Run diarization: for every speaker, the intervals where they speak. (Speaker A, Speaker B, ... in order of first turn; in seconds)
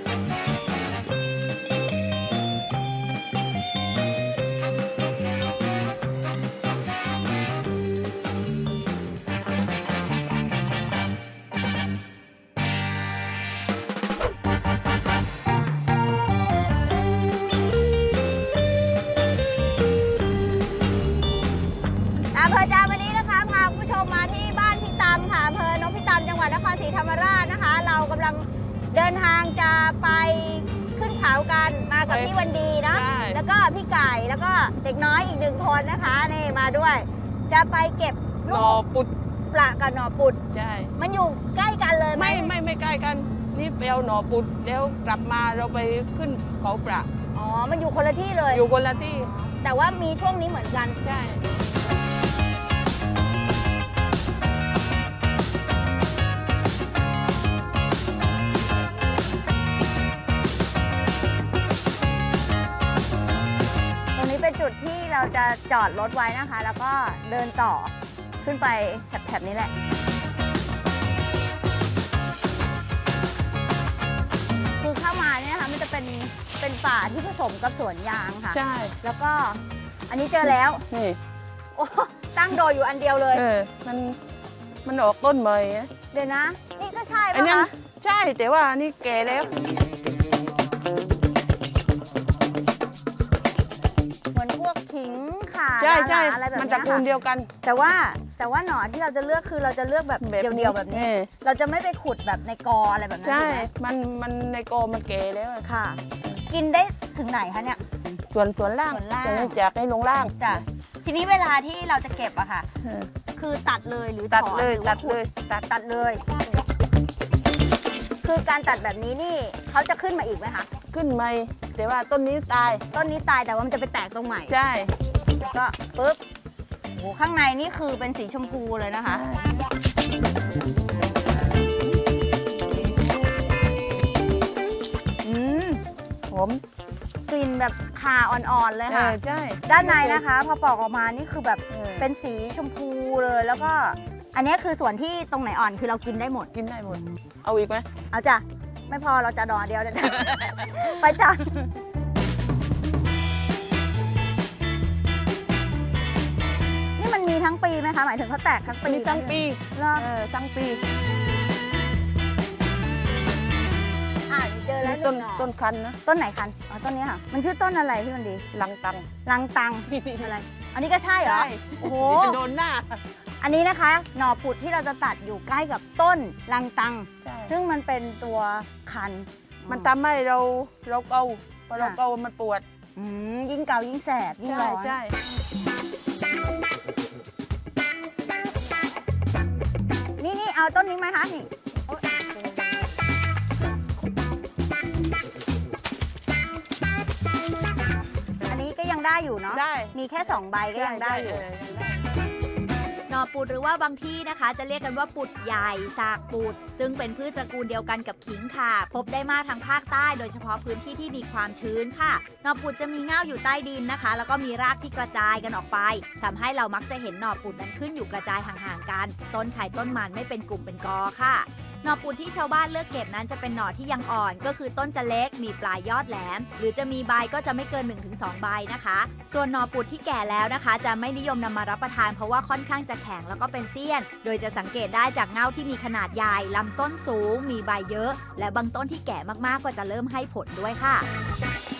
Speaker A: 22.3-38.8, 39.5-40.4, 41.0-42.5, 47.3-48.6, 49.4-51.0, 64.2-69.7, 74.8-80.8, 81.8-83.4, 86.1-87.7, 94.3-97.1, 97.6-103.7, 105.6-107.8, 108.9-109.6, 110.4-112.7, 113.3-116.2, 118.2-120.7, 122.9-124.6, 125.5-126.2, 127.0-129.2, 135.2-136.6, 137.3-146.5, 148.1-151.5, 157.0-160.1, 164.3-165.5, 166.0-168.4, 169.2-172.4, 173.4-179.9, 183.0-185.0, 190.2-191.5, 198.4-201.5
Speaker B: 32.1-33.4, 38.5-39.1, 40.5-40.9, 42.1-47.1, 48.5-49.3, 51.0-51.4, 78.5-78.9, 80.9-81.2, 83.3-84.2, 84.8-85.9, 87.3-89.6, 95.8-97.5, 100.2-101.3, 103.2-105.7, 108.3-110.3, 112.8-113.1, 114.3-115.6, 120.9-122.8, 124.5-124.9, 129.1-129.5, 138.9-140.2, 141.7-142.1, 146.5-147.9, 158.8-160.8, 164.8-166.0, 168.5-169.1, 169.9-170.3, 171.2-173.0, 177.2-177.6, 179.7-182.7, 184.5-185.2, 191.9-192.6, 199.5-200.0, 200.7-202.1
Speaker C: 203.1-241.1